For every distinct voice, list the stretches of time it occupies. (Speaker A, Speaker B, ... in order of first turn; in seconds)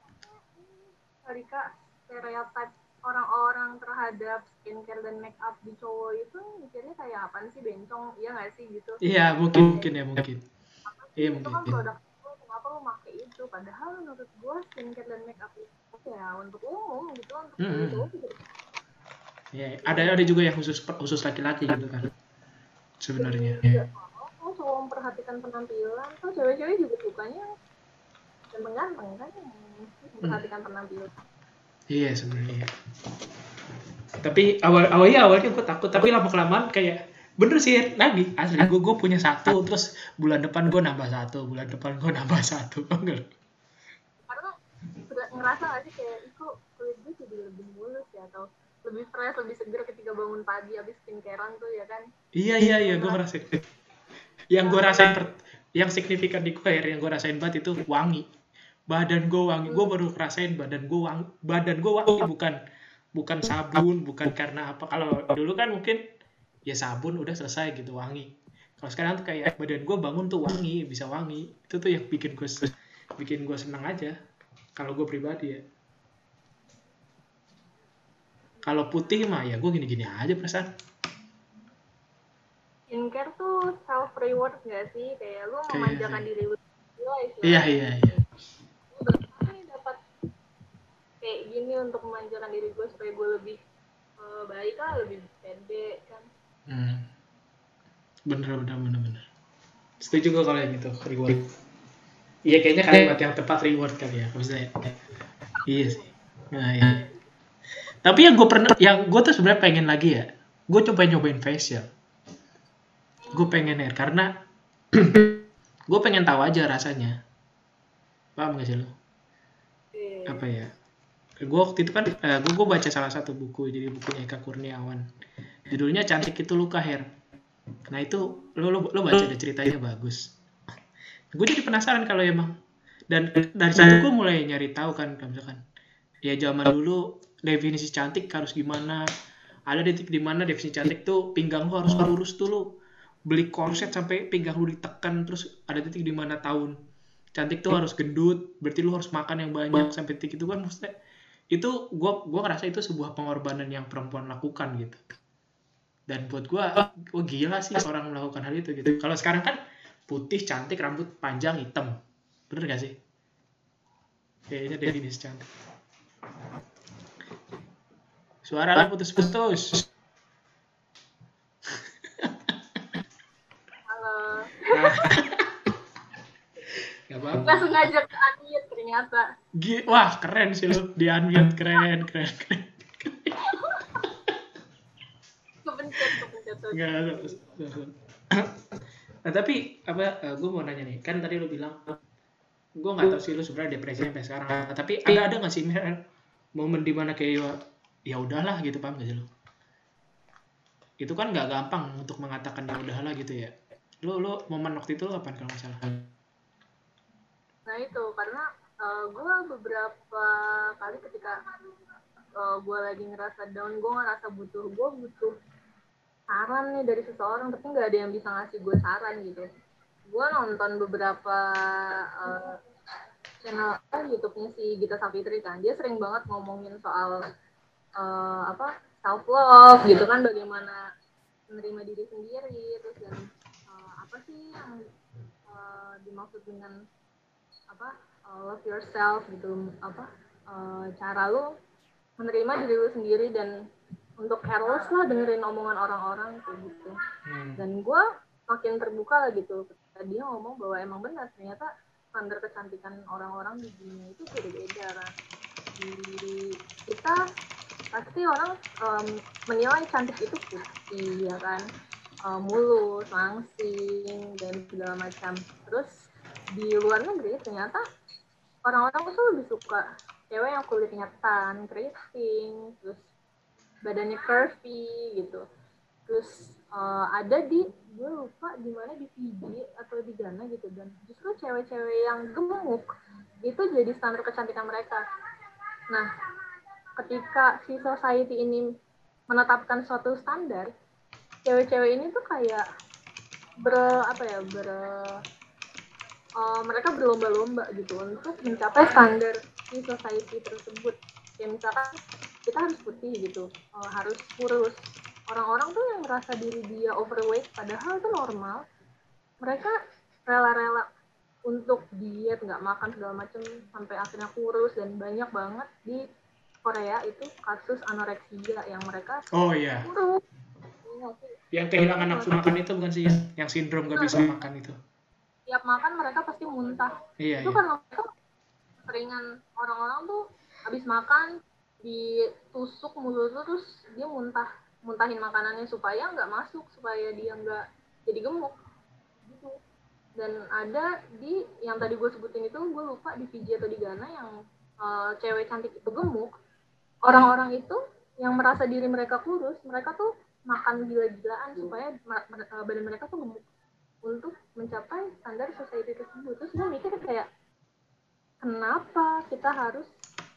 Speaker A: 0.2-9.9, 10.8-18.5, 19.8-20.3, 23.2-27.5, 28.5-31.1, 44.3-44.5, 45.1-52.0, 52.8-53.2, 54.6-55.1, 82.9-88.2, 88.9-90.0, 91.2-93.6, 94.2-96.3, 105.5-106.1, 106.8-107.2, 113.2-113.7, 119.9-120.4, 173.9-175.1, 177.4-179.2, 183.4-184.1, 185.6-187.3, 207.7-211.3, 212.4-215.3, 216.3-219.4, 220.1-222.6, 223.4-227.2, 228.0-230.8, 231.5-234.9, 235.5-236.8, 237.7-241.5, 242.2-243.5, 244.2-246.9, 247.6-255.1, 255.8-257.2, 257.9-261.6, 262.2-265.9, 266.5-267.8, 268.6-273.1, 273.9-275.4, 276.1-282.9, 283.4-285.0, 287.0-288.6, 289.3-290.7, 291.4-292.6, 293.6-295.2, 296.4-301.9, 302.5-304.8, 305.3-308.6, 309.4-309.8, 310.3-310.9, 311.5-316.0, 316.6-319.2, 319.8-320.2, 320.9-322.4, 323.9-324.2, 325.5-328.1, 328.9-331.3, 331.8-338.6, 339.3-339.6, 340.2-344.3, 344.8-346.3, 347.0-353.5, 354.1-357.3, 358.4-359.9
Speaker B: 9.0-10.4, 11.2-11.8, 17.6-18.1, 19.5-22.1, 23.0-23.8, 31.9-32.7, 34.2-43.3, 52.3-53.6, 54.5-58.3, 58.9-62.6, 63.1-66.0, 66.7-74.1, 74.8-75.6, 78.6-80.7, 85.7-86.3, 87.4-88.2, 96.7-97.1, 98.3-99.2, 100.0-101.5, 102.5-105.0, 105.7-106.0, 106.5-107.0, 108.0-111.9, 113.3-114.3, 114.9-117.2, 118.4-118.9, 120.3-120.7, 121.4-125.0, 125.7-127.0, 127.9-130.3, 131.3-132.5, 133.1-135.6, 136.2-139.0, 139.7-142.6, 143.3-146.7, 147.3-150.9, 151.5-155.2, 156.1-161.9, 162.5-162.9, 164.5-165.5, 168.4-169.8, 171.7-172.5, 174.7-175.7, 177.1-177.9, 179.6-183.4, 186.7-188.6, 189.2-192.0, 192.8-196.0, 196.6-197.6, 198.1-199.2, 201.0-206.1, 247.3-247.6, 319.3-319.9, 321.5-324.8, 327.2-327.6